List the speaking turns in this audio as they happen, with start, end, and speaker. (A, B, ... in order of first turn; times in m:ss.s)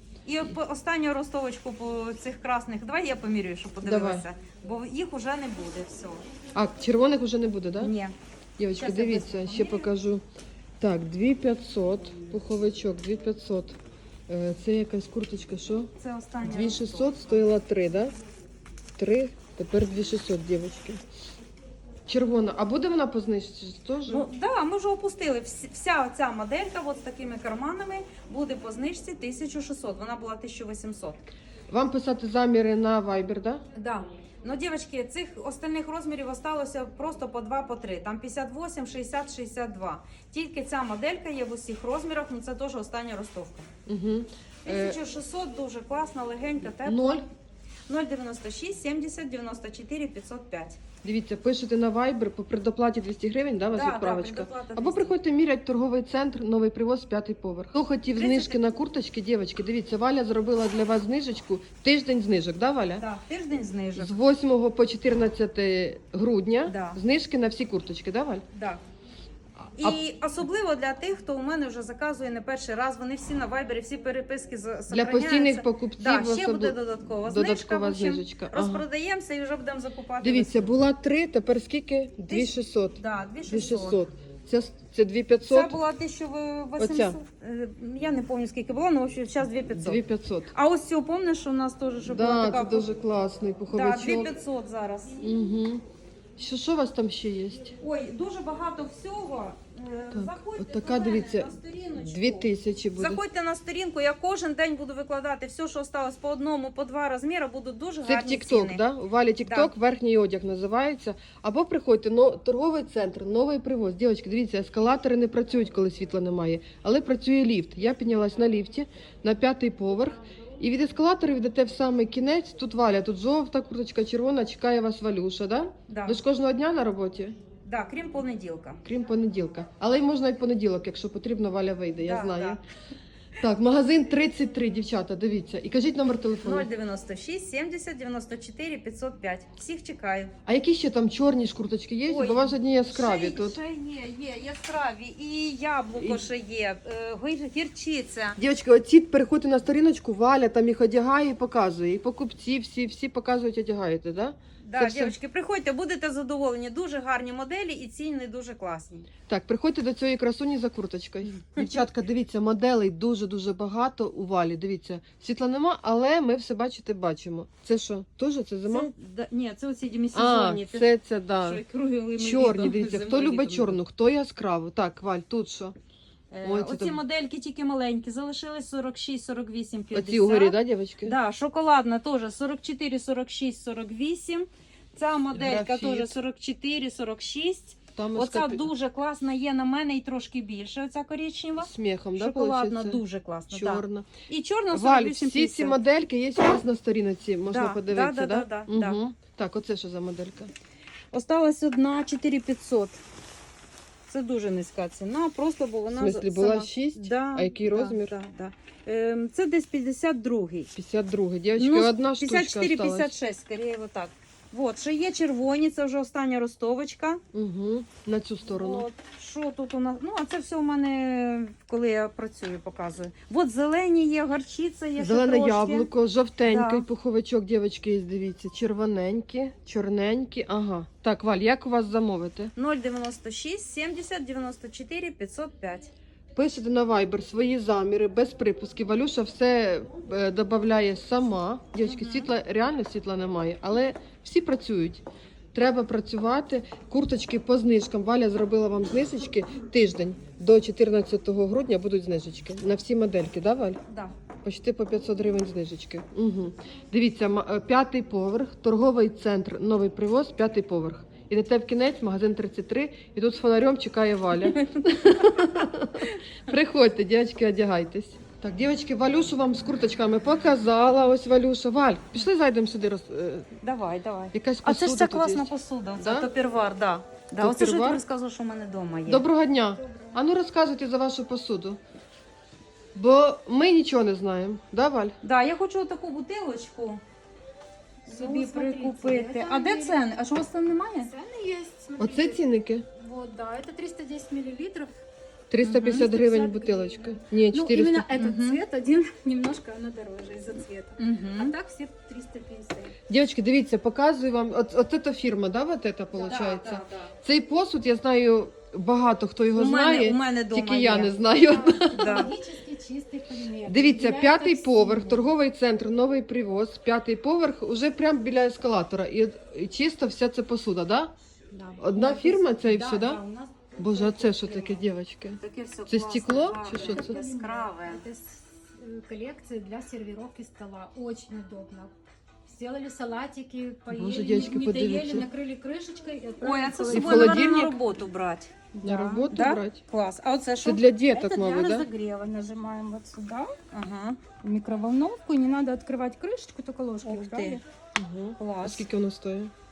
0:00.2-0:06.2 A
0:03.8-0:04.2 B
0:06.5-0:07.9 B
0:07.8-0:08.1 A
0:08.6-0:10.2 B
0:08.8-0:09.8 A
0:10.8-0:13.8 B
0:14.3-0:15.9 B
0:16.0-0:17.3 A
0:16.4-0:18.1 B
0:19.0-0:21.0 B
0:22.1-0:24.3 B
0:24.0-0:31.2 A
0:31.7-0:33.6 B
0:33.7-0:43.7 A
0:43.9-0:45.0 B
0:44.6-0:47.2 A
0:46.8-0:47.2 B
0:47.9-0:50.8 A
0:51.0-1:03.0 B
0:53.7-0:55.1 A
0:58.1-0:58.7 A
1:03.0-1:04.1 A
1:04.0-1:08.4 B
1:06.7-1:07.0 A
1:08.5-1:08.8 A
1:09.6-1:10.0 B
1:09.8-1:20.8 A
1:14.9-1:18.8 B
1:20.2-1:25.8 B
1:22.2-1:24.0 A
1:25.4-1:30.0 A
1:26.8-1:27.2 B
1:29.7-1:30.5 B
1:30.5-1:32.9 A
1:32.1-1:34.3 B
1:33.7-1:35.2 A
1:35.2-1:35.8 B
1:36.4-1:37.7 B
1:37.8-1:48.8 A
1:40.1-1:43.2 B
1:48.0-2:07.4 B
1:49.4-1:49.7 A
2:05.9-2:06.2 A
2:07.6-2:08.8 A
2:08.8-2:12.6 B
2:12.0-2:12.6 A
2:13.4-2:16.7 B
2:16.4-2:20.3 A
2:20.4-2:23.6 B
2:22.1-2:28.4 A
2:25.9-2:26.2 B
2:28.4-2:35.1 B
2:34.6-2:39.0 A
2:39.3-2:48.9 B
2:41.4-2:41.7 A
2:48.7-2:50.9 A
2:50.1-2:51.6 B
2:51.4-2:53.8 A
2:52.2-2:55.8 B
2:56.3-3:15.8 A
2:56.4-2:57.0 B
2:59.9-3:01.2 B
3:05.3-3:06.1 B
3:08.0-3:08.7 B
3:11.6-3:14.1 B
3:14.7-3:20.5 B
3:17.5-3:19.0 A
3:21.1-3:23.0 A
3:24.1-3:30.7 A
3:25.9-3:28.1 B
3:30.7-3:33.1 B
3:31.6-3:37.2 A
3:37.3-3:38.8 B
3:38.5-3:45.9 A
3:45.0-3:52.5 B
3:46.4-3:46.8 A
3:52.6-3:55.9 A
3:56.3-4:13.8 B
4:01.8-4:02.3 A
4:13.9-4:14.1 A
4:14.4-4:33.5 B
4:24.4-4:25.5 A
4:33.6-4:39.2 A
4:34.3-4:36.3 B
4:37.4-4:38.0 B
4:39.0-4:41.8 B
4:39.8-4:40.2 C
4:42.9-4:45.2 B
4:45.2-4:47.0 A
4:48.1-4:50.2 C
4:48.1-4:51.1 A
4:51.0-4:52.4 C
4:52.0-4:52.8 B
4:53.0-4:54.9 C
4:55.5-4:58.1 B
4:55.6-4:56.1 A
4:55.8-5:02.9 C
4:58.2-4:58.6 A
5:01.0-5:01.5 A
5:03.1-5:12.3 B
5:06.3-5:07.1 A
5:09.6-5:12.3 A
5:11.5-5:15.3 C
5:13.7-5:21.1 B
5:21.5-5:24.8 C
5:21.8-5:23.2 B
5:23.8-5:27.2 B
5:25.4-5:28.0 A
5:26.7-5:31.9 C
5:32.4-5:37.5 C
5:33.9-5:35.3 B
5:36.4-5:40.8 A
5:36.9-5:37.8 B
5:38.8-5:39.8 B
5:40.6-5:41.9 B
5:41.1-5:43.5 C
5:43.7-5:44.2 A
5:44.4-5:47.6 C
5:47.0-5:47.6 A
5:47.9-5:49.5 B
5:48.4-5:48.8 A